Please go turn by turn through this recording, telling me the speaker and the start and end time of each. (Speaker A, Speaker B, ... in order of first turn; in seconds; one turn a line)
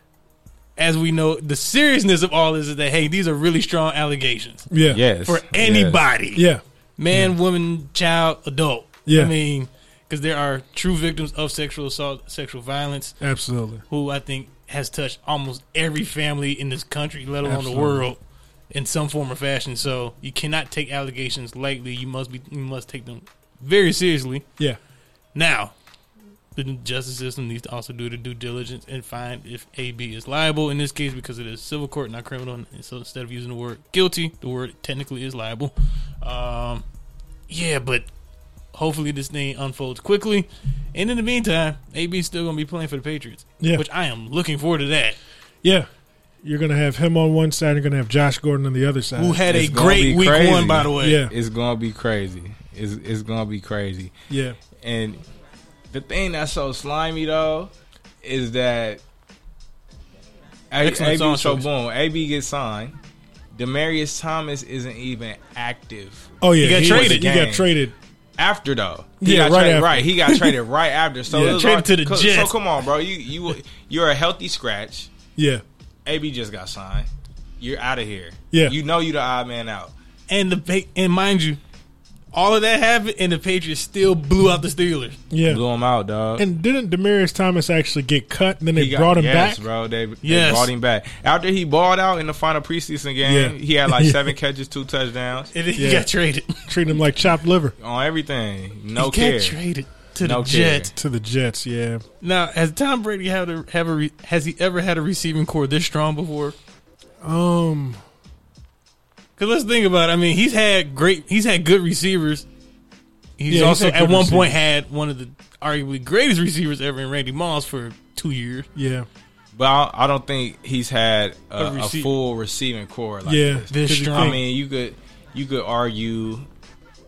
Speaker A: 0.8-4.7
Speaker B: 4.7-5.0
Speaker C: 4.9-6.0
Speaker A: 5.2-6.4
Speaker B: 6.3-7.3
Speaker A: 7.0-13.2
Speaker B: 9.1-9.3
Speaker B: 13.2-13.8
Speaker A: 13.9-18.2
Speaker B: 17.4-18.0
Speaker A: 18.7-24.4
Speaker A: 25.3-25.7
Speaker A: 26.5-36.8
Speaker A: 37.5-38.0
Speaker A: 38.7-45.2
Speaker B: 46.4-49.4
Speaker A: 49.2-51.2
Speaker C: 49.5-54.1
Speaker B: 51.0-51.3
Speaker B: 54.3-54.6
Speaker C: 54.8-55.2
Speaker C: 55.9-57.7
Speaker C: 58.2-59.0
Speaker C: 60.7-63.0
Speaker A: 60.8-61.7
Speaker C: 63.5-67.7
Speaker B: 66.4-67.9
Speaker A: 66.6-67.3
Speaker C: 68.4-75.1
Speaker B: 69.2-70.1
Speaker A: 70.3-70.5
Speaker B: 71.3-71.6
Speaker A: 71.3-72.5
Speaker B: 75.4-75.6
Speaker C: 76.0-77.1
Speaker C: 77.6-79.9
Speaker A: 80.3-81.6
Speaker A: 82.3-85.2
Speaker B: 85.3-85.6
Speaker C: 85.5-86.4
Speaker B: 86.4-89.6
Speaker C: 88.7-95.5
Speaker A: 90.2-90.7
Speaker B: 93.2-94.3
Speaker A: 95.5-96.7
Speaker B: 95.8-96.1
Speaker B: 96.6-97.7
Speaker C: 97.8-99.6
Speaker A: 99.0-100.9
Speaker C: 100.2-100.9
Speaker B: 100.9-102.0
Speaker A: 102.2-106.5
Speaker B: 107.2-108.0
Speaker A: 109.4-112.5
Speaker A: 113.4-118.7
Speaker B: 113.5-114.6
Speaker B: 118.7-119.1
Speaker C: 119.5-126.5
Speaker A: 121.6-122.1
Speaker B: 123.2-124.4
Speaker A: 123.7-124.4